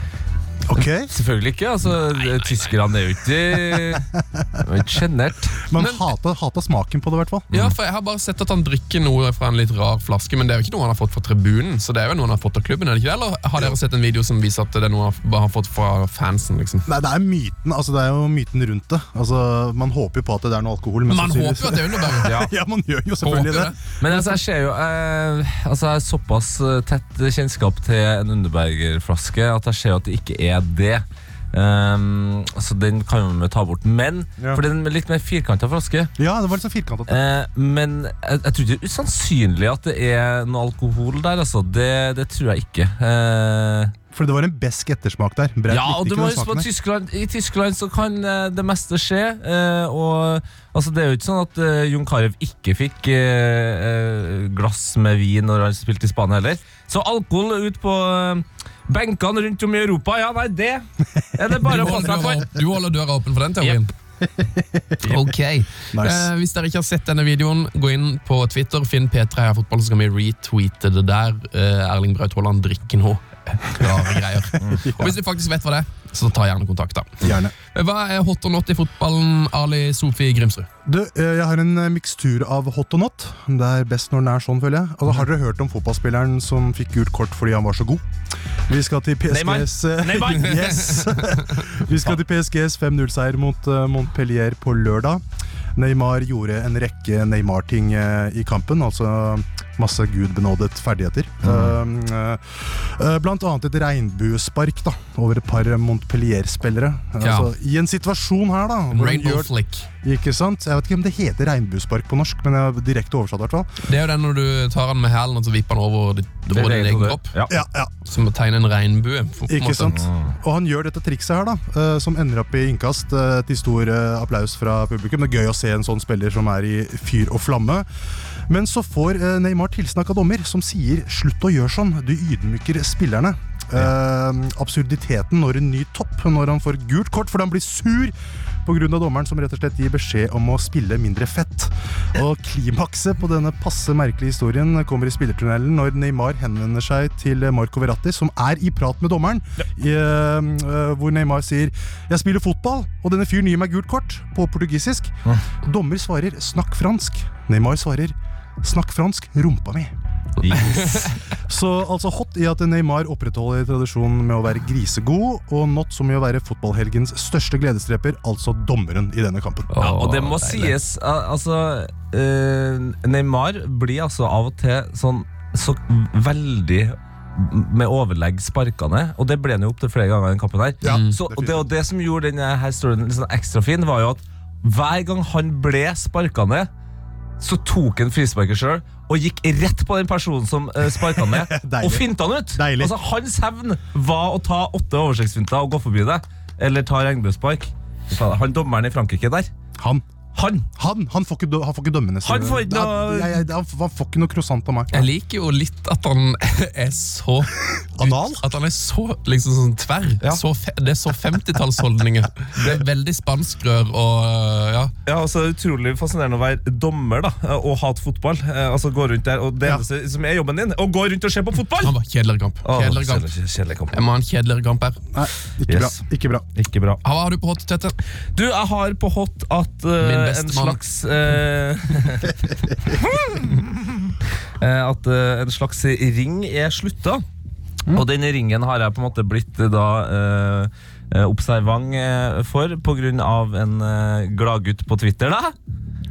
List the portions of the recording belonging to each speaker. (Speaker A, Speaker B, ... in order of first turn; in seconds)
Speaker A: 0.7-1.1, 3.9-4.4, 5.6-7.5, 16.9-23.7, 36.2-37.2, 44.1-46.7, 64.4-65.2, 65.9-66.3, 74.7-75.2, 77.2-77.5, 80.8-88.0, 88.7-95.2, 95.8-109.5, 110.0-113.7, 117.5-117.9, 119.5-127.8, 128.5-138.1, 138.6-155.1, 155.6-159.9, 161.5-169.7, 180.8-181.7, 191.1-192.9, 200.8-205.1, 208.0-208.4, 225.1-226.4
Speaker B: 0.8-4.1, 4.6-5.6, 7.5-7.8, 22.2-22.5, 24.0-36.1, 37.1-43.9, 45.7-60.8, 61.4-62.5, 89.3-90.7, 101.4-101.8, 116.5-117.5, 119.9-120.3, 160.4-161.1, 169.8-186.7, 187.4-199.5, 200.3-200.7, 202.2-203.4, 215.0-221.9, 222.6-224.0, 225.7-226.0, 226.5-227.0, 228.3-237.2, 237.9-245.5
Speaker C: 2.1-2.7, 5.7-6.1, 7.5-16.9, 21.1-22.5, 23.2-24.2, 61.6-63.9, 65.0-80.7, 90.7-91.7, 107.2-107.5, 108.9-109.9, 113.8-117.3, 118.0-120.0, 169.7-170.8, 180.8-181.2, 204.9-214.9, 221.8-223.3, 223.9-225.0, 227.0-227.9, 230.0-230.8